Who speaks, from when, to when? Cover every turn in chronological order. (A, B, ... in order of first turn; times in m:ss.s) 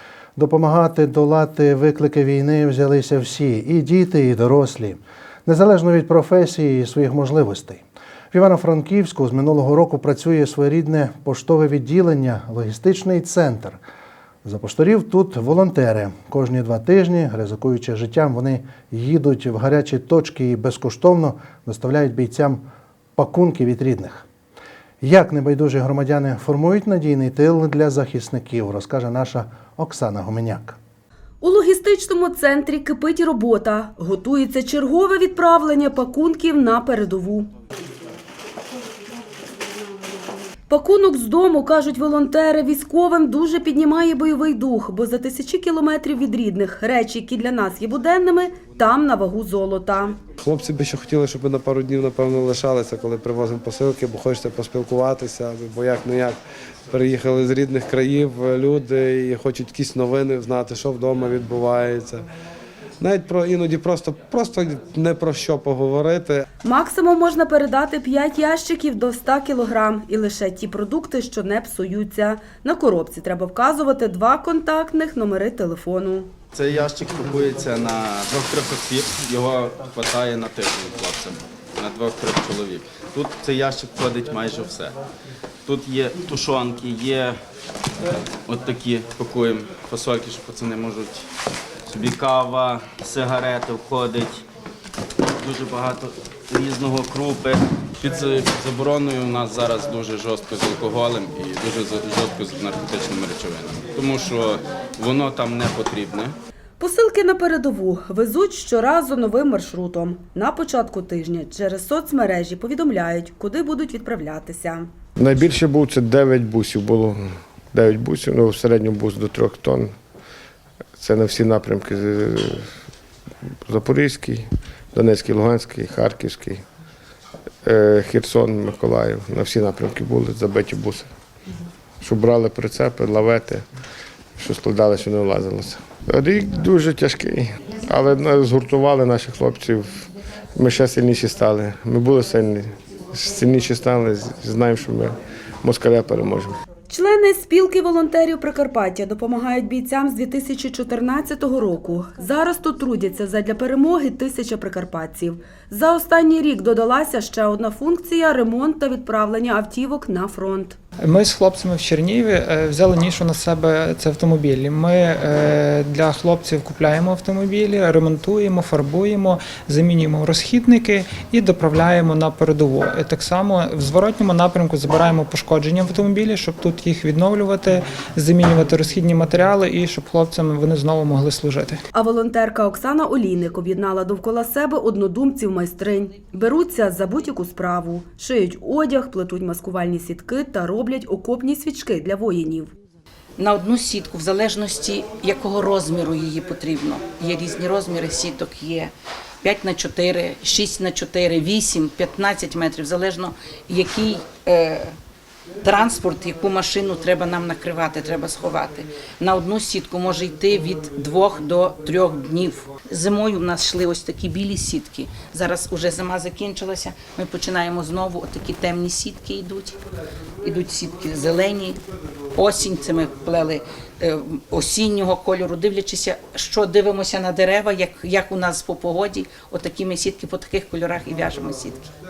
0:00.4-0:13.8 A
0:14.4-0:22.6 A
0:23.2-0:24.2 A
0:25.0-0:30.8 A
0:31.4-0:37.5 B
0:40.7-0:50.2 B
0:50.4-0:56.4 C
0:56.9-1:02.2 C
1:03.0-1:06.4 C
1:06.6-1:16.3 B
1:16.5-1:24.9 D
1:25.6-1:27.3 D
1:28.4-1:31.2 D
1:31.9-1:34.4 D
1:35.4-1:46.3 D
1:46.8-1:54.9 B
1:55.2-1:57.2 E
1:57.7-1:59.9 E
2:01.0-2:02.7 E
2:03.6-2:06.6 E
2:07.6-2:11.1 E
2:12.0-2:13.6 E
2:14.4-2:26.5 E
2:26.9-2:40.8 B
2:41.0-3:01.8 F
3:01.9-3:12.7 B
3:13.4-3:24.9 G
3:25.6-3:39.8 G
3:40.4-3:41.8 G
3:42.3-3:51.9 G